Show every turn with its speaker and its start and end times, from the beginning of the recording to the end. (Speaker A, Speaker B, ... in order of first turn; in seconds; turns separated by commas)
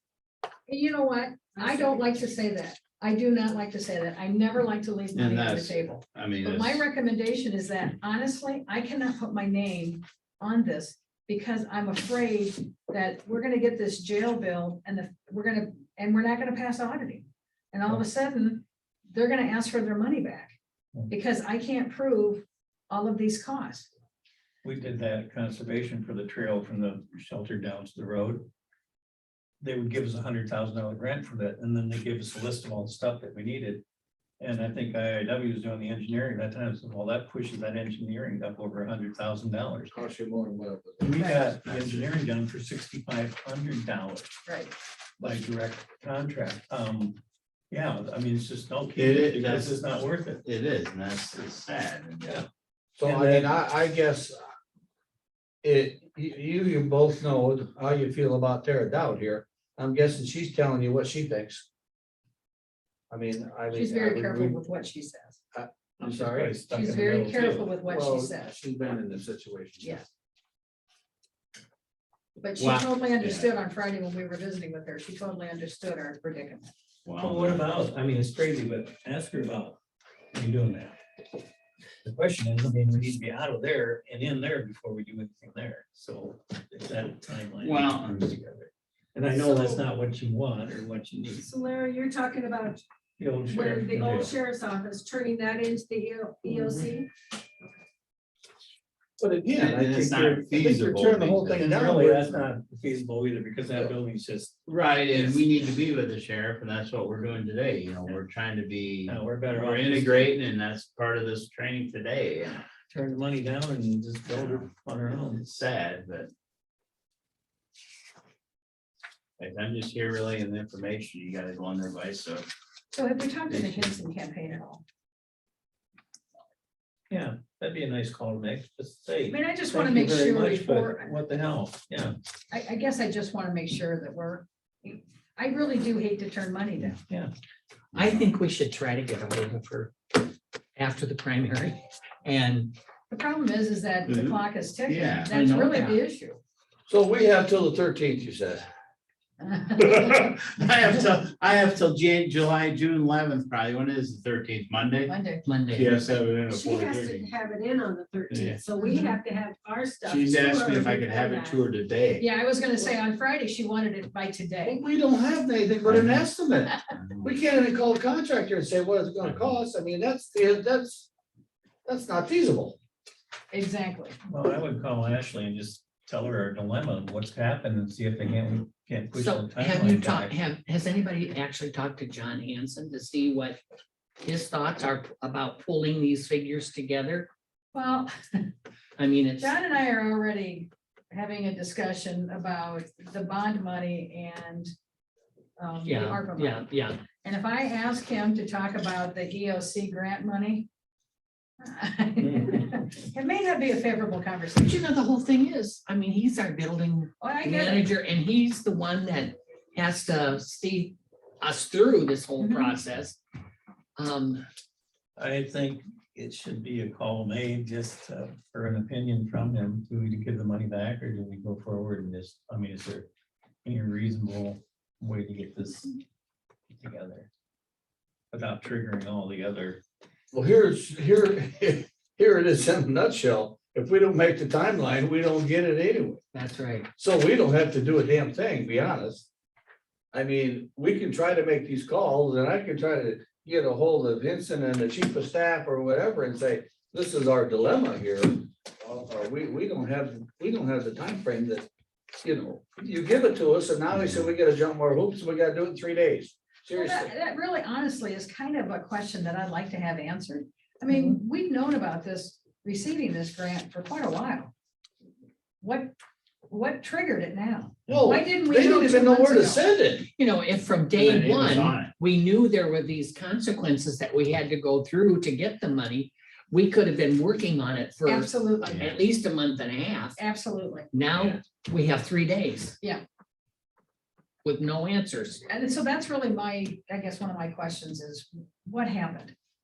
Speaker A: 0.7-20.5, Speaker B: 1.6-2.0, Speaker C: 5.1-6.8, Speaker A: 21.1-23.9, Speaker D: 24.6-28.5, Speaker D: 29.6-33.8, Speaker D: 34.4-39.9, Speaker E: 39.9-41.1, Speaker D: 41.0-44.4, Speaker A: 41.1-41.4, Speaker C: 41.7-41.9, Speaker A: 44.5-44.7, Speaker D: 45.2-47.2, Speaker D: 47.7-50.4, Speaker C: 48.9-52.3, Speaker D: 52.2-52.5, Speaker E: 53.0-54.4, Speaker D: 53.0-53.5, Speaker E: 55.6-61.6, Speaker E: 63.1-64.6, Speaker A: 63.7-65.4, Speaker E: 65.5-66.6, Speaker D: 66.0-67.8, Speaker A: 66.7-68.5, Speaker E: 67.8-70.0, Speaker A: 69.8-70.1, Speaker A: 72.4-76.7, Speaker C: 72.6-73.5, Speaker C: 77.0-77.7, Speaker D: 77.2-79.8, Speaker D: 80.3-81.0, Speaker D: 82.0-91.5, Speaker C: 87.6-88.2, Speaker B: 89.3-89.8, Speaker B: 91.4-92.8, Speaker D: 93.2-94.3, Speaker B: 93.4-97.1, Speaker D: 96.4-97.0, Speaker E: 99.2-102.5, Speaker C: 99.5-101.6, Speaker D: 101.5-105.5, Speaker C: 104.7-112.6, Speaker D: 109.0-110.4, Speaker D: 112.9-115.4, Speaker C: 114.3-116.3, Speaker C: 119.4-122.5, Speaker A: 122.9-124.8, Speaker C: 123.5-124.0, Speaker D: 127.1-132.1, Speaker A: 129.3-131.1, Speaker A: 132.5-137.0, Speaker C: 137.9-138.3, Speaker F: 137.9-142.7, Speaker A: 143.1-146.4, Speaker C: 144.1-145.8, Speaker F: 145.5-146.0, Speaker E: 146.9-148.7, Speaker A: 149.4-150.0, Speaker C: 149.8-155.1, Speaker A: 155.1-155.4, Speaker F: 155.4-156.1, Speaker C: 155.7-157.2, Speaker B: 156.5-161.6, Speaker C: 158.3-158.6, Speaker A: 158.8-159.2, Speaker C: 160.0-162.2, Speaker A: 162.2-164.8, Speaker E: 164.6-171.1, Speaker C: 165.8-166.2, Speaker C: 166.9-167.3, Speaker C: 169.2-169.6, Speaker E: 171.8-172.8, Speaker A: 173.5-174.2, Speaker D: 174.2-180.3, Speaker F: 179.1-183.6, Speaker F: 184.2-187.3, Speaker A: 187.7-188.5, Speaker F: 189.0-189.5, Speaker A: 189.4-194.7, Speaker A: 195.6-196.7, Speaker F: 195.8-197.0, Speaker A: 197.2-200.7, Speaker A: 201.6-204.8, Speaker F: 204.6-213.2, Speaker A: 207.2-207.9, Speaker A: 212.4-212.8, Speaker F: 214.0-214.4, Speaker D: 215.2-223.1, Speaker D: 223.6-226.0, Speaker D: 226.7-227.3, Speaker D: 228.3-229.8, Speaker E: 230.3-236.2, Speaker F: 236.3-236.9, Speaker E: 237.0-239.3, Speaker E: 240.1-251.7, Speaker E: 252.2-257.1, Speaker C: 253.9-254.2, Speaker A: 256.7-264.5, Speaker A: 265.6-265.9, Speaker A: 266.5-269.6, Speaker E: 267.9-270.1, Speaker F: 270.2-280.2, Speaker C: 270.9-271.9, Speaker A: 278.0-278.8, Speaker C: 278.6-279.0, Speaker A: 280.1-280.9, Speaker F: 280.9-282.8, Speaker C: 281.1-281.4, Speaker F: 284.4-285.4, Speaker A: 285.5-289.3